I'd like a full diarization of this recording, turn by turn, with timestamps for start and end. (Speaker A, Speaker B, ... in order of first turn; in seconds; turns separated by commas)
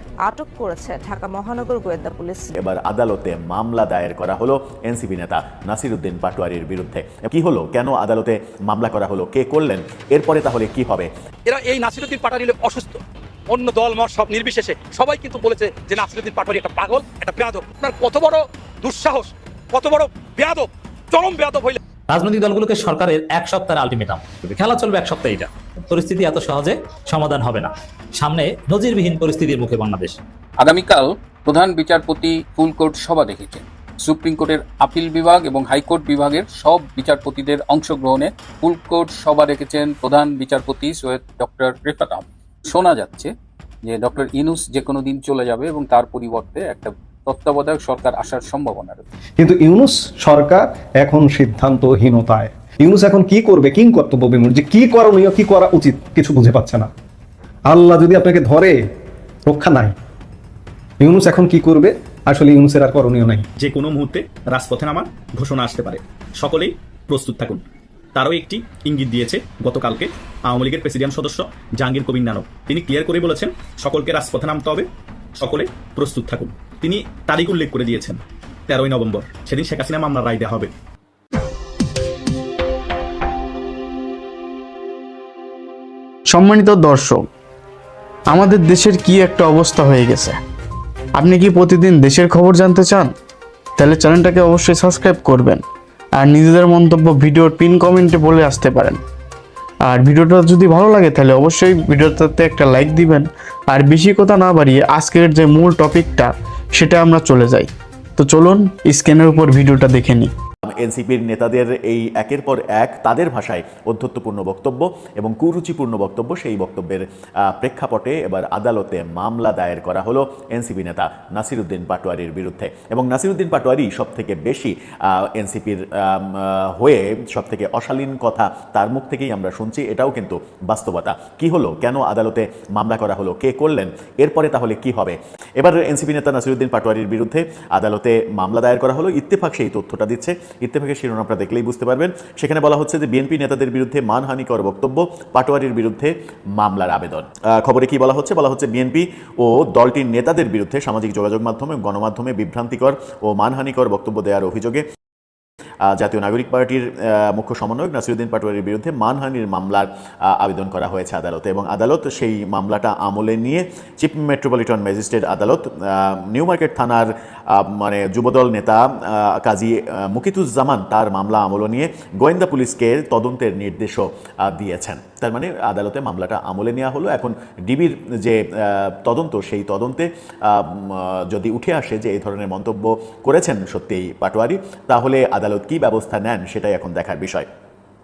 Speaker A: 0.2-2.5, Speaker B: 2.5-11.1, Speaker C: 11.4-21.8, Speaker D: 22.1-30.2, Speaker E: 30.6-43.3, Speaker E: 43.8-49.0, Speaker F: 49.4-56.9, Speaker F: 57.7-58.8, Speaker F: 59.5-60.0, Speaker F: 61.0-63.5, Speaker G: 63.6-67.6, Speaker G: 68.1-74.9, Speaker G: 75.4-80.7, Speaker H: 86.3-87.2, Speaker H: 88.3-90.4, Speaker H: 91.2-93.1, Speaker H: 93.8-95.6, Speaker H: 96.2-99.0, Speaker H: 99.8-110.3, Speaker B: 110.7-154.8, Speaker B: 155.8-187.4